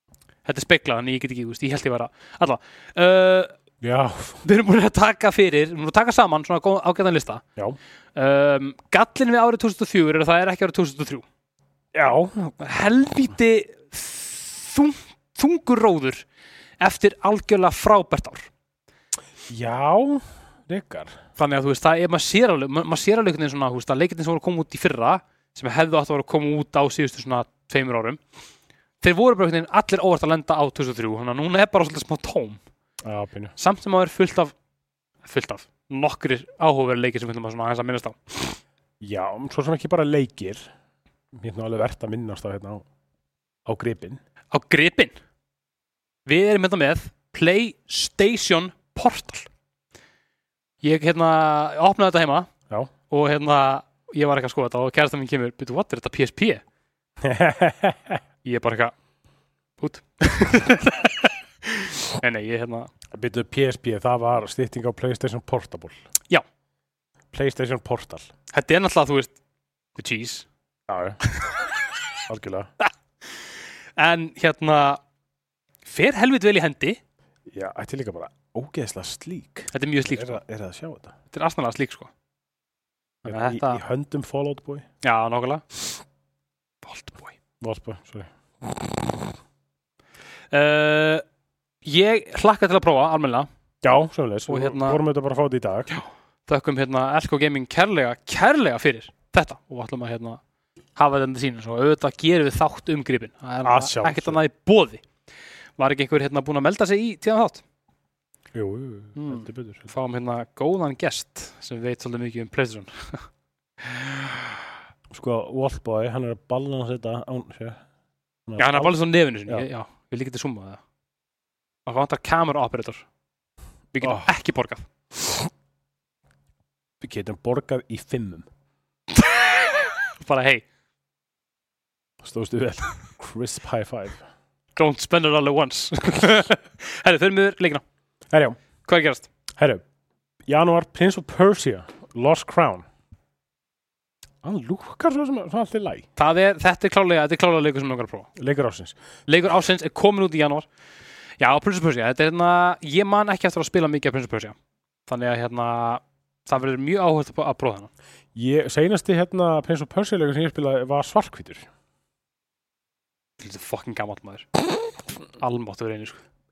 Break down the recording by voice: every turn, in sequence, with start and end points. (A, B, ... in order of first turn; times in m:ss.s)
0:00.4-0:03.5 A
0:03.8-0:04.4 B
0:04.4-0:07.4 A
0:08.1-0:11.2 A
0:11.9-0:12.6 B
0:12.6-0:16.2 A
0:16.8-0:18.5 A
0:19.5-0:21.2 B
0:21.4-0:28.2 A
0:29.0-0:32.6 A
0:33.0-0:33.5 B
0:33.6-0:34.5 A
0:35.2-0:38.6 A
0:39.0-0:40.7 B
0:41.3-0:42.8 B
0:43.6-0:44.2 B
0:44.5-0:45.1 A
0:46.2-0:49.5 A
0:50.8-0:52.5 A
0:53.1-0:56.6 A
0:57.2-0:58.2 B
0:58.4-0:58.9 A
0:59.8-1:02.9 A
1:03.1-1:06.0 B
1:07.3-1:08.3 B
1:08.5-1:09.4 A
1:10.0-1:10.5 A
1:10.9-1:11.2 B
1:12.3-1:12.7 B
1:14.0-1:15.0 A
1:15.8-1:17.0 A
1:17.5-1:21.1 B
1:19.7-1:20.4 A
1:21.3-1:22.1 A
1:23.2-1:24.8 B
1:23.2-1:23.8 A
1:25.0-1:25.6 A
1:26.8-1:27.3 A
1:27.6-1:29.3 B
1:30.5-1:31.2 A
1:31.8-1:33.5 A
1:33.8-1:35.9 B
1:34.5-1:35.0 A
1:36.5-1:40.4 A
1:41.0-1:45.0 A
1:43.6-1:44.4 B
1:45.8-1:47.6 A
1:48.5-1:49.9 B
1:49.2-1:53.2 A
1:53.9-1:54.1 A
1:55.1-1:57.8 B
1:58.5-1:58.9 B
1:58.6-2:00.8 A
2:01.8-2:03.0 A
2:03.9-2:04.8 A
2:04.0-2:04.3 B
2:05.2-2:05.5 B
2:07.0-2:08.5 B
2:09.2-2:10.6 A
2:12.2-2:14.2 B
2:14.8-2:17.8 A
2:18.3-2:18.6 B
2:18.8-2:19.3 A
2:19.6-2:19.8 B
2:20.5-2:22.8 B
2:24.4-2:26.0 B
2:26.2-2:28.3 A
2:28.4-2:29.0 B
2:29.3-2:30.6 A
2:31.4-2:34.6 A
2:35.1-2:37.9 A
2:38.3-2:41.7 B
2:43.4-2:44.5 A
2:45.4-2:46.2 A